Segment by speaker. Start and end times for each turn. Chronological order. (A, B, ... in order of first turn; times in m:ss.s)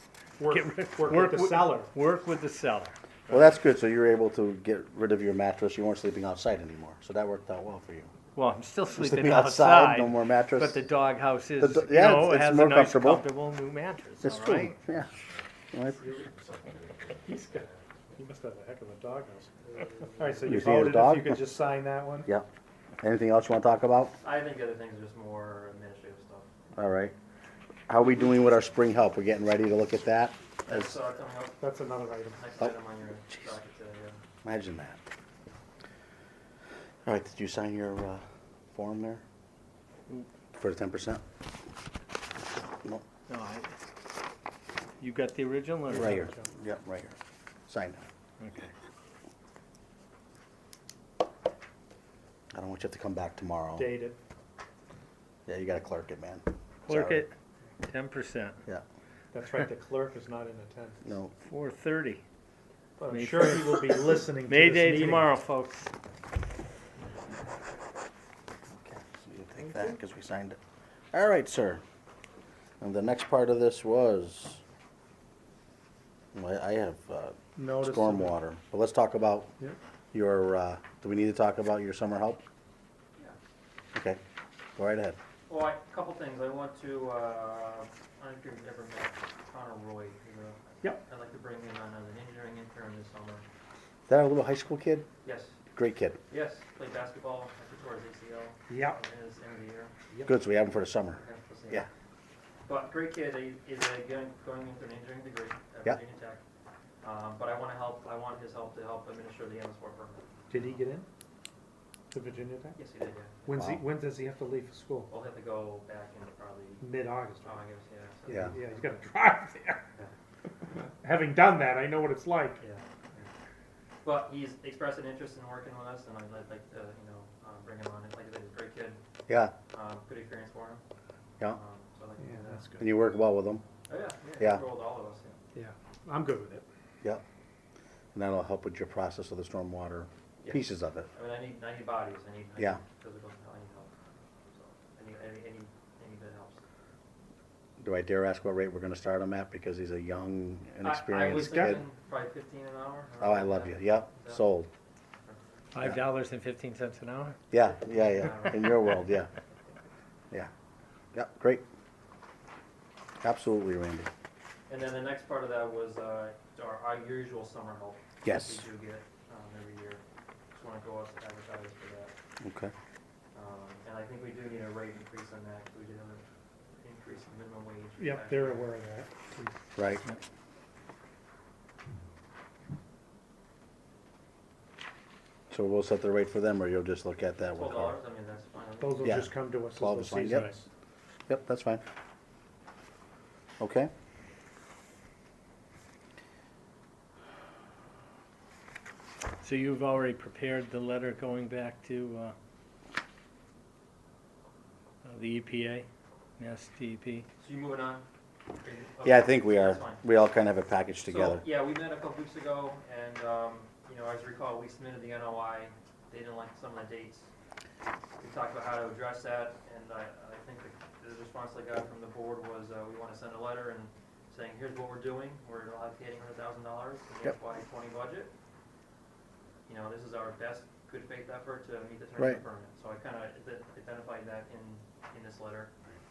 0:00.4-0:01.9 A
0:00.5-0:03.4 B
0:03.3-0:08.1 C
0:08.4-0:14.8 B
0:08.9-0:10.8 C
0:11.6-0:13.2 C
0:14.2-0:15.1 C
0:15.7-0:16.1 C
0:17.3-0:19.6 A
0:20.2-0:22.3 A
0:20.4-0:21.4 C
0:23.0-0:24.2 C
0:24.2-0:26.5 D
0:26.8-0:27.1 C
0:27.9-0:30.9 C
0:30.7-0:31.8 D
0:31.6-0:32.4 A
0:32.4-0:34.2 D
0:34.4-0:35.0 C
0:37.0-0:39.2 C
0:40.6-0:41.2 C
0:43.3-0:43.8 B
0:45.0-0:46.3 B
0:45.9-0:47.2 C
0:45.9-0:46.5 A
0:47.7-0:48.0 C
0:48.4-0:48.7 B
0:52.5-0:53.9 C
0:53.8-0:54.2 A
0:55.5-0:57.3 C
0:56.9-0:57.3 B
0:57.9-0:58.6 B
0:59.3-1:01.0 A
1:01.0-1:01.3 C
1:01.4-1:02.2 B
1:03.0-1:05.3 A
1:03.1-1:05.9 B
1:08.8-1:10.6 C
1:11.1-1:11.8 C
1:12.8-1:14.6 C
1:16.3-1:19.5 C
1:17.6-1:18.4 A
1:20.1-1:22.4 C
1:24.8-1:25.2 C
1:25.5-1:33.4 D
1:34.1-1:35.1 C
1:35.2-1:35.6 D
1:35.8-1:36.2 C
1:36.3-1:39.9 D
1:38.7-1:39.0 A
1:40.3-1:41.9 C
1:41.2-1:41.9 D
1:42.7-1:46.4 D
1:47.0-1:50.8 D
1:50.5-1:51.1 A
1:52.1-1:52.8 A
1:52.8-1:53.5 D
1:53.4-1:55.1 A
1:53.5-1:53.8 C
1:55.1-1:59.0 D
1:56.8-1:57.6 A
1:58.3-1:59.8 A
2:01.0-2:02.6 A
2:02.6-2:03.3 D
2:04.0-2:09.0 D
2:09.3-2:09.5 C
2:09.7-2:10.8 D
2:11.5-2:12.7 D
2:12.2-2:12.9 A
2:12.8-2:13.6 C
2:13.9-2:15.4 D
2:15.5-2:16.7 A
2:18.1-2:21.1 C
2:20.4-2:26.6 D
2:27.8-2:31.8 C
2:30.8-2:34.4 D
2:33.2-2:34.7 C
2:35.2-2:35.6 D
2:35.7-2:37.4 B
2:37.5-2:39.3 C
2:37.9-2:38.8 D
2:41.1-2:41.6 C
2:43.2-2:44.1 C
2:44.7-2:50.0 D
2:48.2-2:48.6 C
2:50.5-2:52.1 D
2:52.4-2:52.7 C
2:53.3-2:58.7 D
2:58.0-2:59.6 A
2:59.8-3:00.0 C
3:05.5-3:08.0 C
3:07.5-3:09.3 D
3:08.8-3:10.7 A
3:09.0-3:10.5 C
3:11.3-3:11.8 C
3:13.6-3:13.9 C
3:19.4-3:22.4 B
3:25.0-3:25.9 B
3:26.4-3:27.3 B
3:27.4-3:28.0 D
3:28.6-3:30.0 D
3:29.0-3:31.4 C
3:31.1-3:37.3 D
3:38.2-3:48.3 D
3:49.7-3:55.7 D